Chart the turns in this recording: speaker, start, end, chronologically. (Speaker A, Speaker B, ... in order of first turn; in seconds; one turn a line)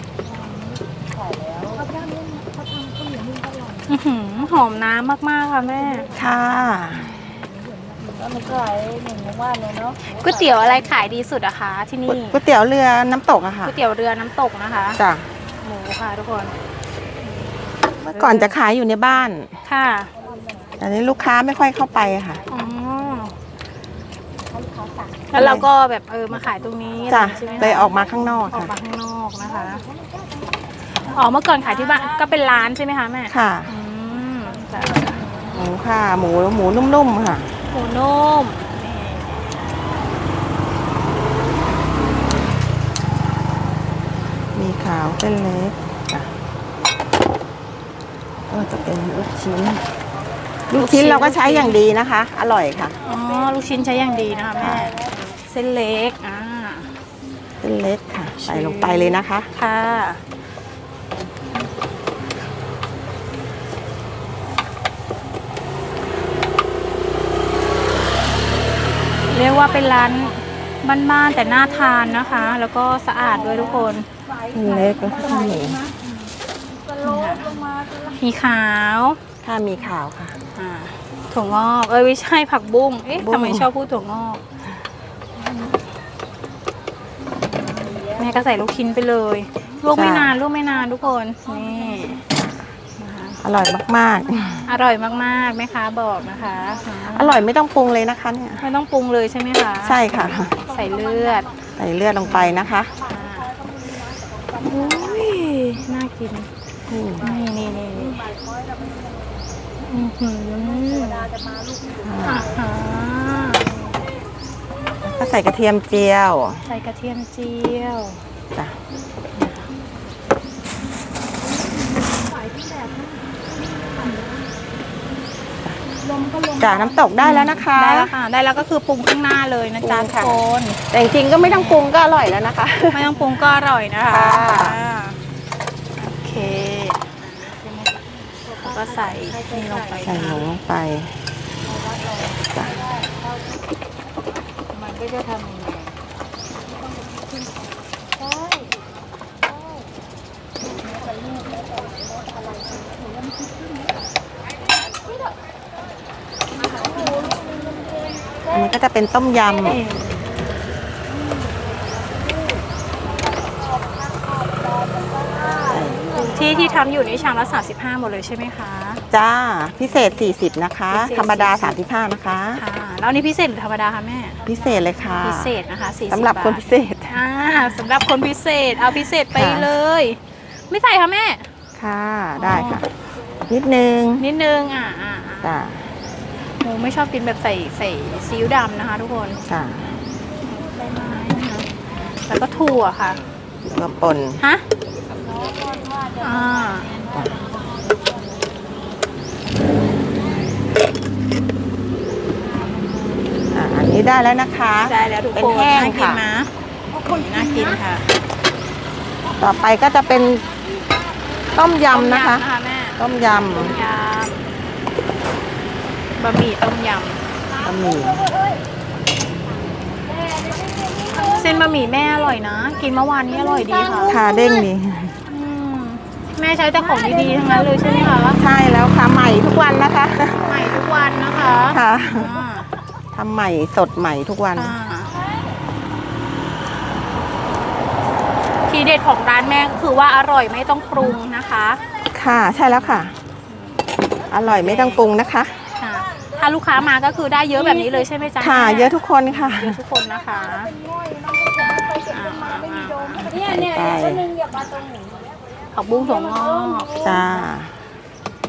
Speaker A: 0.2-3.9
Speaker B: 3.9-6.1
Speaker A: 5.9-11.0
Speaker C: 6.2-7.1
Speaker B: 10.0-12.4
Speaker C: 12.1-13.7
Speaker B: 13.6-15.0
Speaker C: 15.0-15.3
Speaker B: 15.6-16.6
Speaker C: 18.0-19.5
Speaker B: 18.1-18.6
Speaker B: 19.6-20.1
Speaker A: 20.2-20.8
Speaker C: 20.8-22.4
Speaker B: 22.5-23.3
Speaker A: 24.5-25.4
Speaker B: 25.3-29.8
Speaker C: 25.4-25.7
Speaker C: 27.1-28.7
Speaker A: 27.2-28.1
Speaker A: 29.7-30.6
Speaker B: 30.9-35.2
Speaker C: 33.3-33.7
Speaker A: 34.8-35.5
Speaker C: 35.5-37.5
Speaker B: 37.7-39.4
Speaker C: 44.5-46.3
Speaker C: 48.5-49.8
Speaker C: 50.7-53.0
Speaker B: 50.7-51.8
Speaker B: 53.0-56.9
Speaker A: 54.2-54.5
Speaker C: 54.6-55.0
Speaker C: 57.6-59.5
Speaker B: 58.4-60.2
Speaker B: 69.3-74.1
Speaker A: 74.3-75.9
Speaker C: 74.5-75.8
Speaker B: 76.0-76.3
Speaker A: 76.8-78.2
Speaker B: 77.0-77.5
Speaker B: 78.2-79.2
Speaker C: 79.4-80.4
Speaker B: 80.6-84.7
Speaker C: 83.2-83.7
Speaker B: 85.4-85.8
Speaker B: 87.4-92.2
Speaker C: 89.9-90.3
Speaker B: 93.0-93.4
Speaker C: 93.4-94.7
Speaker B: 94.7-97.4
Speaker C: 97.1-98.6
Speaker B: 98.6-101.5
Speaker C: 99.8-100.6
Speaker A: 100.5-100.8
Speaker C: 101.8-102.9
Speaker B: 102.2-103.5
Speaker A: 103.0-105.2
Speaker B: 104.6-106.5
Speaker C: 106.9-107.3
Speaker B: 107.2-108.2
Speaker A: 107.2-109.6
Speaker B: 109.8-111.3
Speaker A: 110.9-112.1
Speaker C: 112.0-112.5
Speaker B: 112.2-113.7
Speaker C: 115.0-116.6
Speaker B: 116.7-118.2
Speaker B: 119.3-119.7
Speaker A: 121.4-124.5
Speaker A: 126.0-127.0
Speaker C: 126.6-128.1
Speaker B: 127.2-130.8
Speaker C: 129.8-133.1
Speaker B: 131.4-131.9
Speaker B: 132.9-135.2
Speaker C: 134.1-134.8
Speaker B: 136.0-140.5
Speaker A: 138.6-140.2
Speaker C: 140.1-141.1
Speaker A: 141.6-143.5
Speaker C: 142.5-142.8
Speaker B: 144.7-145.9
Speaker A: 150.8-153.8
Speaker A: 156.6-158.6
Speaker C: 158.5-159.8
Speaker B: 159.6-160.2
Speaker A: 162.3-162.6
Speaker A: 163.3-166.8
Speaker C: 165.7-166.0
Speaker B: 166.1-169.0
Speaker C: 169.1-172.6
Speaker B: 170.9-171.8
Speaker B: 172.6-174.4
Speaker C: 174.4-175.6
Speaker B: 175.1-181.5
Speaker C: 176.1-177.2
Speaker C: 179.3-179.7
Speaker C: 181.8-182.9
Speaker B: 182.4-182.8
Speaker C: 183.5-184.2
Speaker B: 184.2-185.6
Speaker C: 185.4-185.9
Speaker B: 186.5-189.4
Speaker C: 189.4-190.0
Speaker B: 190.4-191.7
Speaker B: 192.3-193.2
Speaker C: 193.7-194.4
Speaker A: 195.2-198.6
Speaker B: 196.2-197.0
Speaker C: 203.5-206.2
Speaker B: 204.8-206.5
Speaker B: 207.0-208.1
Speaker C: 209.4-210.4
Speaker A: 210.8-211.6
Speaker C: 211.5-212.4
Speaker B: 211.9-214.4
Speaker C: 213.0-213.8
Speaker B: 216.2-217.2
Speaker A: 217.5-218.6
Speaker C: 217.6-218.2
Speaker A: 220.1-221.4
Speaker B: 221.3-224.1
Speaker A: 223.7-224.4
Speaker C: 224.0-225.2
Speaker B: 225.3-228.4
Speaker A: 227.0-228.3
Speaker C: 228.4-230.6
Speaker B: 230.5-232.7
Speaker C: 231.7-232.4
Speaker C: 233.1-234.7
Speaker B: 234.6-235.1
Speaker B: 238.7-241.8
Speaker C: 242.1-243.1
Speaker B: 242.8-243.7
Speaker C: 244.3-245.6
Speaker B: 244.4-245.0
Speaker B: 245.8-250.7
Speaker C: 248.4-249.8
Speaker A: 250.5-255.4
Speaker B: 251.7-253.4
Speaker C: 253.3-254.3
Speaker B: 255.7-257.0
Speaker A: 256.7-257.2
Speaker C: 257.0-257.7